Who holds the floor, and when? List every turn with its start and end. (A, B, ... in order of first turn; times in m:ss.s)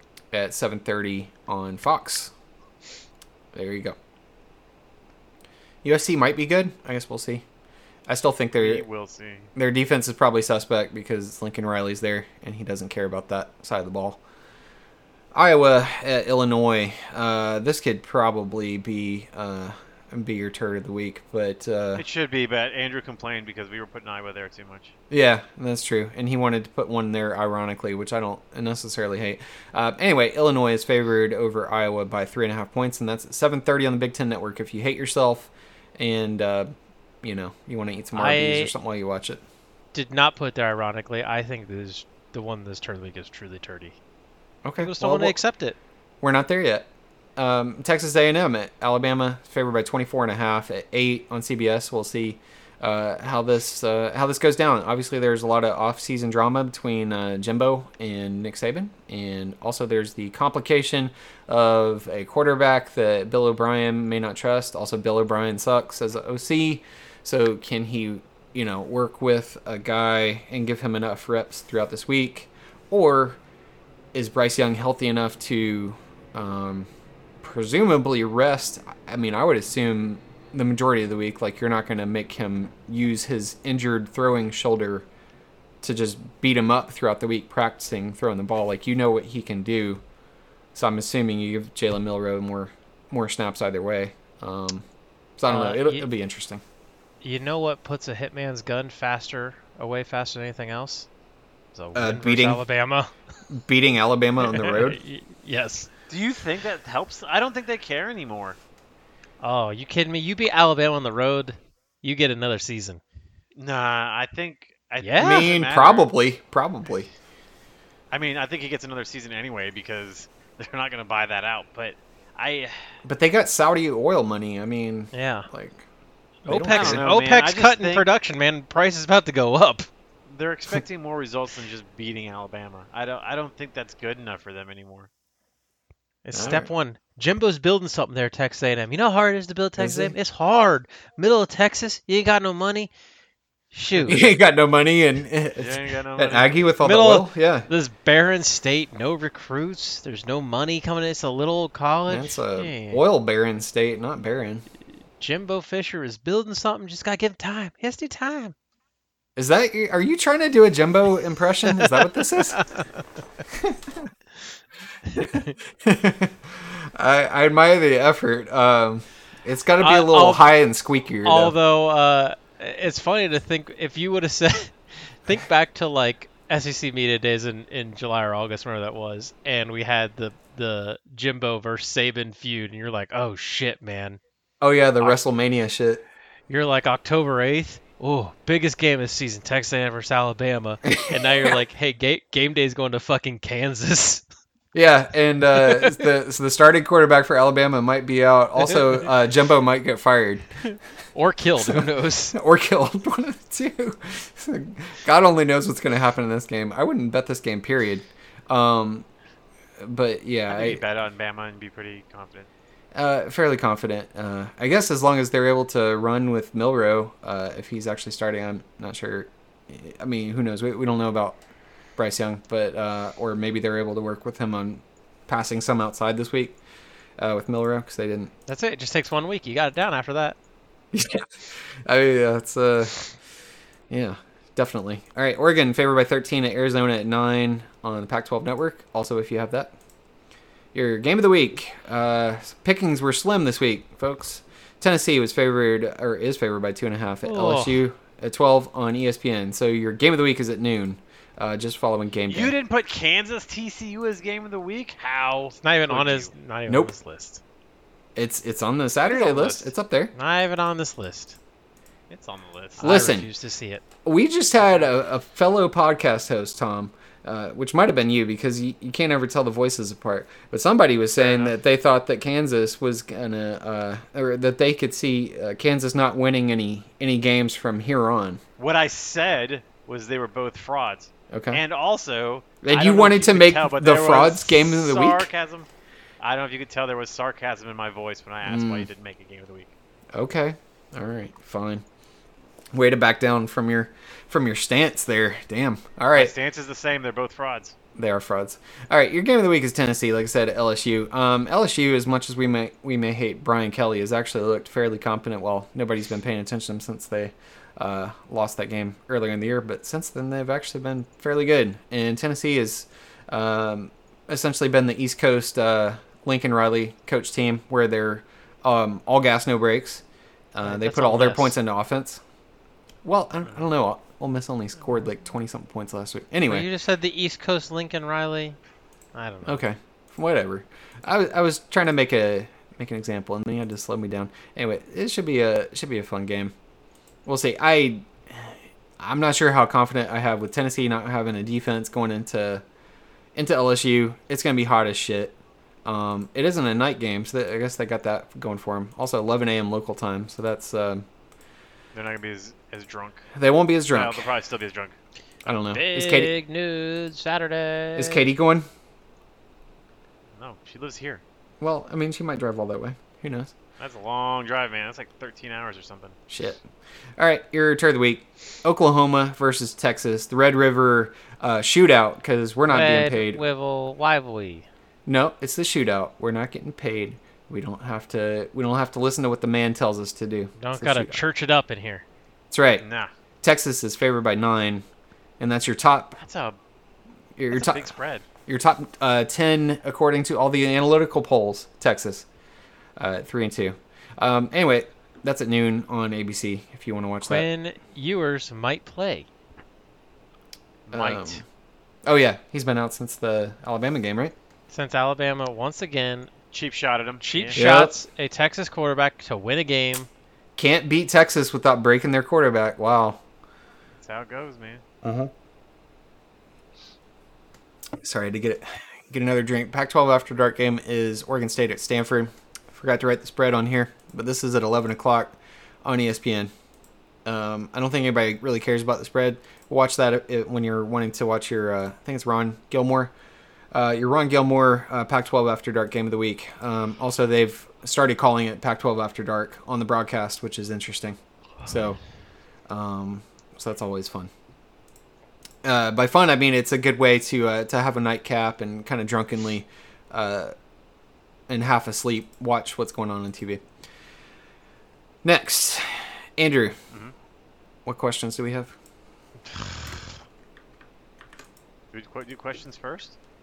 0:00.3-0:02.3 A
0:03.5-0:04.0 A
0:05.8-0:07.4 A
0:08.1-0:08.8 A
0:08.6-0:09.5 B
0:09.6-0:14.2 A
0:15.3-0:22.0 A
0:22.0-0:25.0 B
0:25.1-0:36.7 A
0:37.2-0:39.4 A
0:38.2-0:38.7 C
0:39.9-0:44.0 C
0:44.6-0:45.4 A
0:44.8-0:45.8 C
0:46.2-1:13.4 A
1:14.1-1:16.9 A
1:17.4-1:25.1 A
1:25.8-1:30.0 A
1:30.8-1:34.8 A
1:35.4-1:36.6 A
1:35.5-1:36.1 C
1:37.2-1:41.1 C
1:41.8-1:43.1 C
1:42.0-1:42.6 A
1:43.5-1:45.0 A
1:44.4-1:45.9 C
1:46.1-1:48.6 B
1:49.4-1:53.0 C
1:53.6-1:56.1 B
1:55.0-1:55.5 C
1:55.2-1:57.1 A
1:58.1-2:02.8 B
2:03.0-2:05.8 A
2:05.1-2:05.5 C
2:06.5-2:09.9 C
2:06.5-2:07.1 A
2:06.7-2:08.1 B
2:10.3-2:15.1 B
2:16.2-2:22.9 C
2:16.3-2:16.7 A
2:19.8-2:20.1 A
2:23.7-2:24.3 C
2:24.0-2:27.7 A
2:25.6-2:26.7 B
2:26.8-2:33.0 C
2:32.1-2:34.6 A
2:35.2-2:38.6 C
2:39.4-2:42.6 A
2:42.6-2:42.8 C
2:43.5-2:44.1 A
2:45.1-2:45.5 C
2:45.2-2:51.6 A
2:49.8-2:50.5 C
2:51.2-3:04.2 C
3:04.6-3:06.0 A
3:06.5-3:14.2 C
3:10.8-3:11.6 A
3:14.7-3:20.5 A
3:15.6-3:16.0 C
3:18.7-3:19.0 C
3:20.6-3:22.4 C
3:21.6-3:29.1 A
3:29.8-3:30.8 A
3:30.5-3:32.5 B
3:32.9-3:41.4 A
3:42.0-3:46.6 A
3:47.2-3:48.3 A
3:48.5-3:50.4 C
3:50.9-3:53.0 A
3:53.9-3:59.7 A
4:00.7-4:12.5 A
4:07.2-4:07.8 C
4:12.3-4:16.3 B
4:15.6-4:17.4 C
4:18.2-4:20.1 A
4:19.0-4:19.7 B
4:20.2-4:21.4 C
4:22.1-4:22.9 B
4:22.8-4:23.8 C
4:22.8-4:23.3 A
4:24.0-4:38.4 A
4:31.2-4:31.6 B
4:38.6-4:45.7 B
4:41.3-4:41.6 A
4:42.6-4:45.3 A
4:46.2-4:49.7 B
4:48.4-4:48.9 A
4:50.1-4:51.8 A
4:52.7-4:56.3 A
4:56.1-4:57.8 B
4:58.0-5:20.0 A
5:20.5-5:22.2 A
5:20.6-5:21.6 C
5:23.0-5:26.7 A
5:26.5-5:28.6 C
5:29.2-5:29.6 C
5:29.5-5:36.5 A
5:37.3-5:42.6 A
5:43.4-5:51.0 A
5:51.9-5:53.3 B
5:53.4-5:54.3 A
5:53.9-5:55.0 B
5:55.5-5:56.3 A
5:55.7-5:58.3 C
5:58.0-5:58.7 A
6:00.4-6:01.2 B
6:01.6-6:03.5 A
6:03.8-6:06.2 B
6:06.3-6:06.6 A
6:07.2-6:13.4 A
6:12.7-6:14.7 C
6:15.1-6:21.2 A
6:20.6-6:22.0 C
6:22.5-6:22.8 A
6:22.8-6:23.1 B
6:23.4-6:24.8 A
6:25.4-6:26.2 A
6:26.2-6:26.6 B
6:27.4-6:27.9 A
6:27.5-6:28.3 B
6:28.5-6:32.3 A
6:33.0-6:37.5 A
6:37.2-6:39.3 C
6:40.9-6:41.4 B
6:40.9-6:41.4 A
6:42.1-6:44.4 A
6:44.7-6:46.3 C
6:46.5-6:47.6 B
6:47.2-6:50.1 C
6:47.6-6:48.0 A
6:50.6-6:53.2 A
6:54.0-6:54.8 B
6:55.0-6:55.3 A
6:58.0-7:06.5 A
7:07.2-7:13.1 A
7:13.7-7:22.0 A
7:22.7-7:24.3 A
7:25.6-7:30.5 A
7:31.5-7:33.6 A
7:35.2-7:36.8 A
7:37.9-7:38.8 A
7:41.9-7:43.2 B